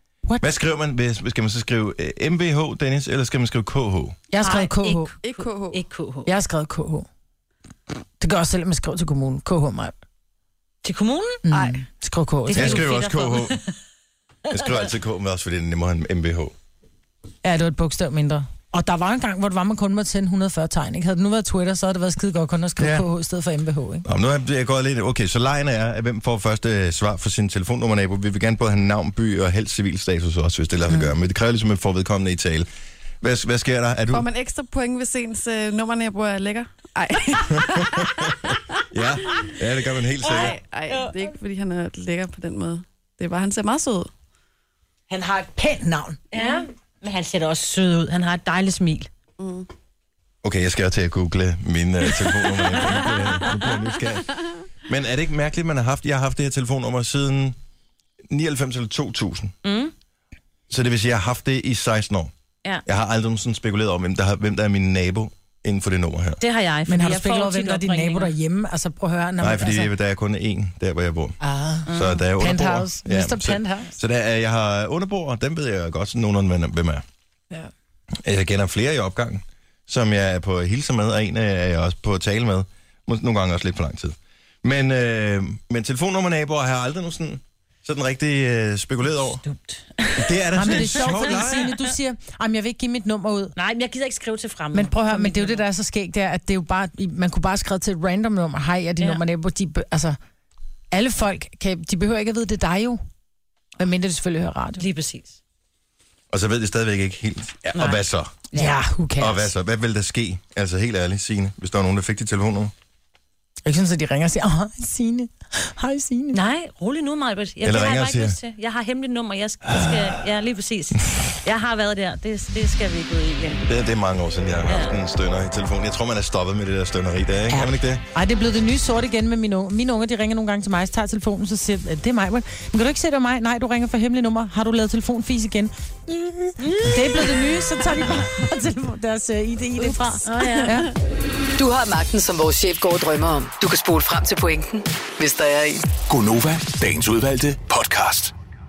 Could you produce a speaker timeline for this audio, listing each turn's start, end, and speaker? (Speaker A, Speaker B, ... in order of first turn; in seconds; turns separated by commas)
Speaker A: 0.4-4.2, Speaker B: 4.3-5.1, Speaker C: 4.4-6.3, Speaker D: 5.2-5.8, Speaker B: 6.2-7.1, Speaker B: 8.2-9.9, Speaker C: 10.8-11.4, Speaker B: 11.4-12.9, Speaker D: 11.5-11.8, Speaker C: 12.4-13.7, Speaker A: 12.5-13.6, Speaker A: 14.5-16.5, Speaker B: 17.4-24.0, Speaker A: 22.8-23.0, Speaker A: 24.0-32.7, Speaker A: 33.2-34.3, Speaker D: 34.1-38.8, Speaker A: 37.8-40.6, Speaker D: 40.2-44.1, Speaker C: 40.2-41.3, Speaker B: 45.1-46.2, Speaker C: 46.3-49.1, Speaker D: 49.4-49.7, Speaker A: 50.4-57.5, Speaker A: 58.3-59.5, Speaker C: 59.6-59.9, Speaker A: 60.7-62.3, Speaker A: 62.9-66.4, Speaker C: 66.4-68.3, Speaker B: 66.9-69.9, Speaker A: 69.4-77.0, Speaker B: 71.4-73.9, Speaker C: 71.9-72.2, Speaker A: 78.2-89.4, Speaker C: 89.4-91.8, Speaker A: 90.1-91.7, Speaker B: 90.5-93.5, Speaker C: 93.5-95.6, Speaker B: 94.7-100.2, Speaker B: 100.9-103.0, Speaker B: 103.8-104.8, Speaker C: 104.8-105.4, Speaker A: 106.3-108.4, Speaker C: 107.7-108.8, Speaker B: 108.5-109.5, Speaker A: 109.2-112.7, Speaker B: 113.6-116.4, Speaker C: 116.3-123.7, Speaker A: 117.6-118.4, Speaker A: 123.7-128.0, Speaker C: 124.7-125.0, Speaker B: 127.5-140.9, Speaker C: 136.6-137.3, Speaker C: 139.8-140.8, Speaker E: 141.6-145.8, Speaker F: 146.1-148.3